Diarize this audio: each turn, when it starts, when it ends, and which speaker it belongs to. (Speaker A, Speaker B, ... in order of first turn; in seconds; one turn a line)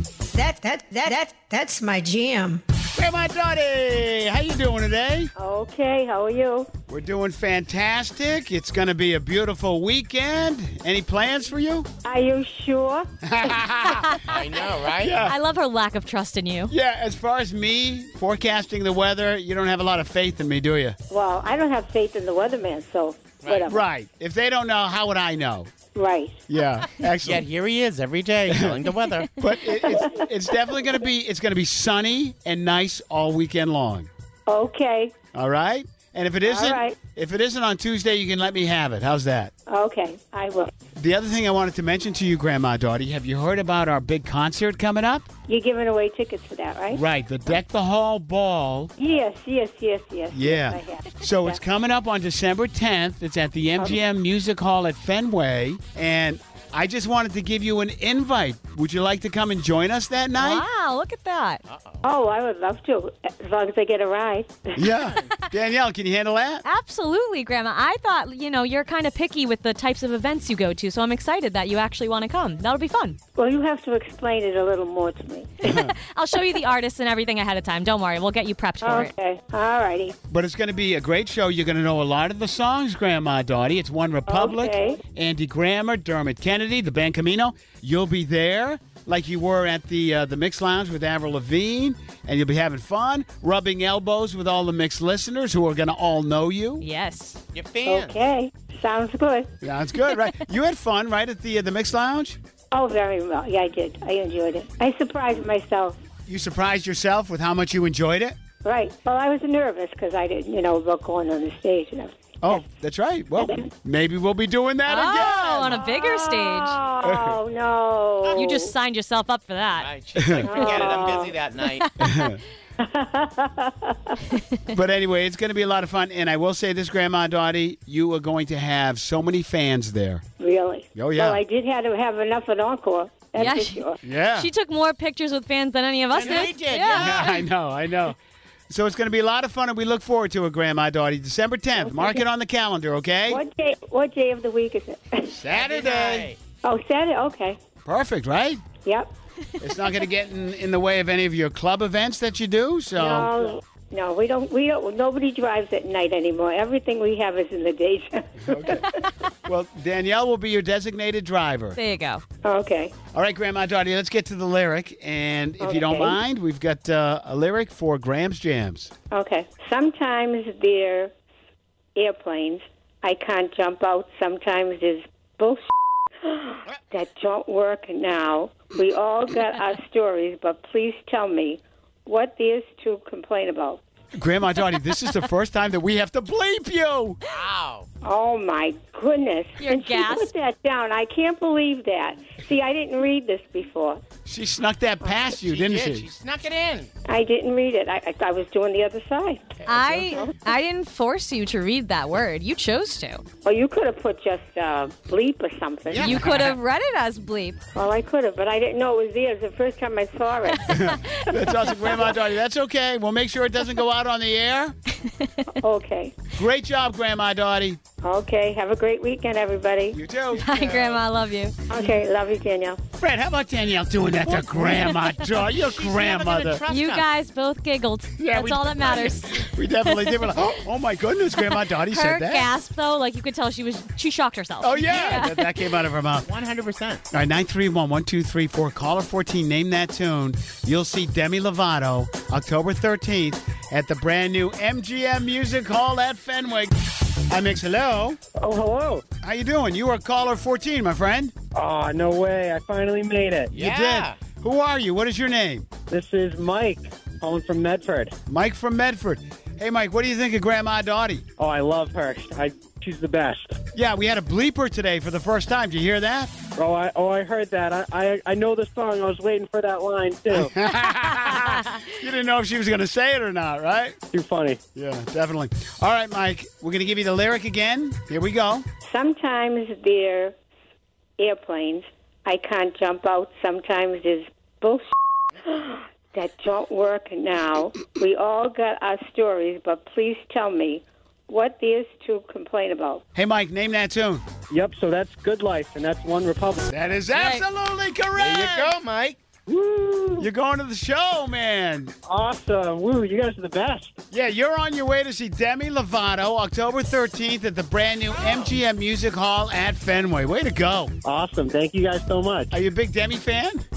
Speaker A: 0.3-2.6
Speaker B: 2.9-5.3
Speaker C: 5.3-6.7
Speaker B: 6.9-11.9
Speaker C: 12.0-13.1
Speaker B: 13.2-14.1
Speaker D: 13.9-14.3
Speaker E: 14.3-15.1
Speaker B: 15.0-15.3
Speaker D: 15.2-16.7
Speaker B: 16.7-21.0
Speaker C: 21.1-23.8
Speaker B: 23.6-25.7
Speaker C: 25.9-26.4
Speaker B: 26.5-27.4
Speaker E: 27.2-29.3
Speaker B: 28.5-34.1
Speaker C: 29.9-30.2
Speaker C: 34.5-35.1
Speaker B: 35.3-39.5
Speaker C: 36.4-37.0
Speaker C: 39.7-40.7
Speaker B: 41.0-45.3
Speaker C: 45.5-47.0
Speaker B: 46.9-48.9
Speaker C: 49.0-51.6
Speaker B: 50.3-60.6
Speaker D: 60.4-61.6
Speaker E: 61.7-62.1
Speaker C: 62.0-64.8
Speaker B: 64.7-66.6
Speaker D: 66.6-73.2
Speaker C: 73.3-75.6
Speaker B: 75.6-75.9
Speaker D: 75.6-79.1
Speaker C: 78.8-80.1
Speaker B: 80.3-96.8
Speaker C: 84.3-85.0
Speaker D: 96.8-97.4
Speaker E: 97.5-98.1
Speaker C: 97.8-99.5
Speaker B: 99.6-102.4
Speaker C: 102.7-106.0
Speaker B: 106.2-108.3
Speaker C: 108.6-112.6
Speaker B: 112.4-115.8
Speaker C: 113.4-113.7
Speaker D: 114.8-116.8
Speaker C: 115.7-118.7
Speaker B: 117.0-117.4
Speaker E: 118.2-118.5
Speaker D: 118.3-119.9
Speaker E: 119.8-121.9
Speaker B: 120.2-120.5
Speaker C: 120.5-121.3
Speaker D: 120.5-120.9
Speaker D: 121.8-122.3
Speaker B: 122.0-122.4
Speaker C: 122.8-124.2
Speaker B: 124.7-130.2
Speaker C: 130.4-134.0
Speaker B: 130.9-131.4
Speaker D: 133.3-133.8
Speaker B: 134.0-134.5
Speaker D: 134.3-137.4
Speaker E: 136.1-137.3
Speaker B: 136.3-138.2
Speaker B: 138.7-143.4
Speaker C: 141.8-142.2
Speaker C: 143.3-145.4
Speaker B: 145.3-146.3
Speaker E: 145.5-146.4
Speaker C: 146.6-147.6
Speaker B: 147.8-148.6
Speaker C: 148.8-149.1
Speaker B: 149.6-153.3
Speaker C: 152.9-158.9
Speaker B: 158.5-158.9
Speaker B: 159.4-161.8
Speaker D: 161.8-162.2
Speaker C: 162.4-162.9
Speaker B: 163.1-168.9
Speaker C: 165.6-166.2
Speaker C: 169.1-171.1
Speaker C: 171.9-175.6
Speaker C: 176.2-183.8
Speaker B: 184.2-187.2
Speaker E: 187.3-187.8
Speaker C: 188.0-194.0
Speaker D: 189.6-190.3
Speaker B: 194.2-196.1
Speaker E: 195.4-196.9
Speaker C: 197.1-199.6
Speaker D: 199.7-203.2
Speaker C: 203.4-206.2
Speaker E: 205.9-206.4
Speaker D: 206.0-207.6
Speaker C: 207.7-210.7
Speaker D: 210.5-212.2
Speaker B: 210.7-214.8
Speaker C: 215.6-216.2
Speaker B: 216.3-217.8
Speaker C: 218.0-220.0
Speaker B: 219.9-221.0
Speaker D: 220.3-221.5
Speaker C: 221.7-222.8
Speaker B: 222.9-226.6
Speaker D: 224.5-225.3
Speaker E: 225.6-227.1
Speaker D: 226.7-230.3
Speaker B: 228.2-232.5
Speaker D: 231.4-235.6
Speaker B: 234.6-236.3
Speaker E: 236.2-237.0
Speaker B: 237.1-248.2
Speaker F: 248.4-249.0
Speaker B: 249.2-251.3
Speaker F: 251.5-253.5
Speaker B: 253.5-255.7
Speaker E: 253.5-254.2
Speaker F: 255.9-258.1
Speaker B: 258.3-261.2
Speaker F: 261.4-263.6
Speaker B: 263.7-266.3
Speaker F: 266.5-270.5
Speaker B: 270.3-274.0
Speaker F: 274.1-274.6
Speaker B: 274.7-278.6
Speaker C: 278.8-280.3
Speaker C: 281.2-284.8
Speaker C: 285.4-293.0
Speaker B: 293.1-294.2
Speaker F: 294.5-296.7
Speaker B: 296.7-298.8
Speaker D: 297.1-297.4
Speaker E: 298.1-299.2
Speaker F: 299.5-300.3
Speaker B: 300.2-301.9
Speaker F: 302.1-304.0
Speaker B: 304.1-310.9
Speaker F: 311.0-312.5
Speaker B: 312.5-313.6